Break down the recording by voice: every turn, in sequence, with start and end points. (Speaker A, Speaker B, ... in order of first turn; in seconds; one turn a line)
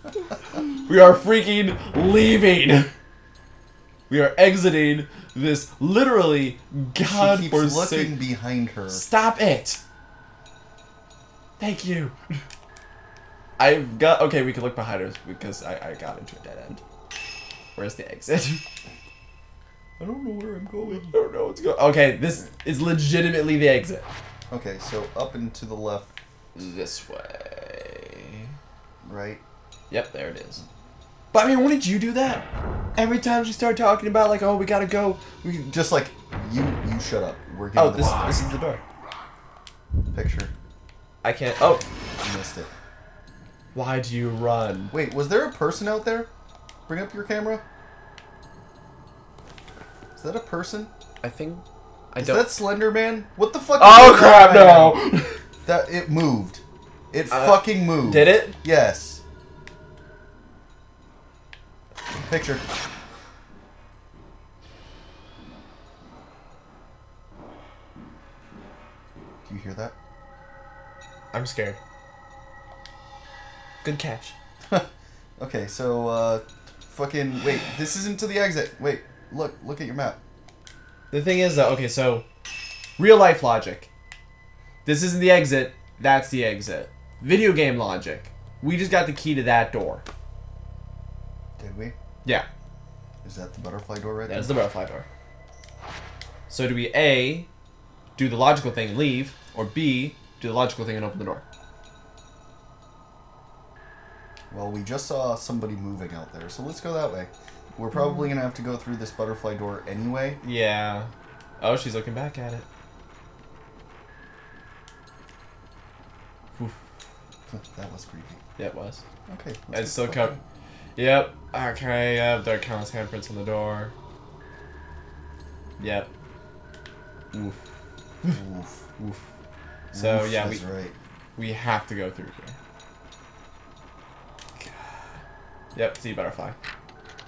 Speaker A: 0.9-2.9
Speaker A: 4.1-8.2
Speaker B: 7.0-9.0
Speaker A: 8.9-9.8
Speaker A: 11.6-12.2
Speaker A: 13.6-16.8
Speaker A: 17.8-18.6
Speaker B: 20.0-21.1
Speaker A: 20.8-24.1
Speaker B: 24.5-26.1
Speaker A: 26.6-28.5
Speaker B: 29.0-29.4
Speaker A: 29.9-30.6
Speaker A: 31.3-32.5
Speaker A: 33.0-35.4
Speaker B: 35.4-38.5
Speaker A: 37.8-38.8
Speaker B: 40.1-40.5
Speaker A: 41.2-41.9
Speaker B: 42.2-42.7
Speaker A: 43.7-44.9
Speaker B: 44.9-46.3
Speaker B: 46.9-47.6
Speaker B: 50.2-50.9
Speaker A: 51.2-52.5
Speaker B: 52.2-55.0
Speaker A: 53.8-55.4
Speaker B: 55.6-59.2
Speaker A: 57.3-58.6
Speaker B: 62.2-62.6
Speaker B: 69.5-70.0
Speaker A: 71.3-71.8
Speaker A: 73.8-74.3
Speaker B: 74.7-80.2
Speaker A: 81.1-82.3
Speaker A: 83.0-83.9
Speaker A: 84.8-90.0
Speaker B: 91.6-92.0
Speaker B: 93.2-94.5
Speaker A: 94.3-95.1
Speaker A: 96.5-97.5
Speaker A: 98.2-101.4
Speaker B: 104.5-110.4
Speaker A: 110.4-112.7
Speaker A: 116.5-116.8
Speaker B: 117.5-118.4
Speaker A: 118.6-119.0
Speaker B: 119.3-120.4
Speaker A: 119.7-120.4
Speaker A: 121.0-123.9
Speaker A: 125.8-126.1
Speaker A: 127.3-127.6
Speaker B: 128.3-128.9
Speaker B: 129.9-130.9
Speaker A: 129.9-130.6
Speaker A: 131.4-132.6
Speaker A: 134.6-135.1
Speaker A: 135.8-136.6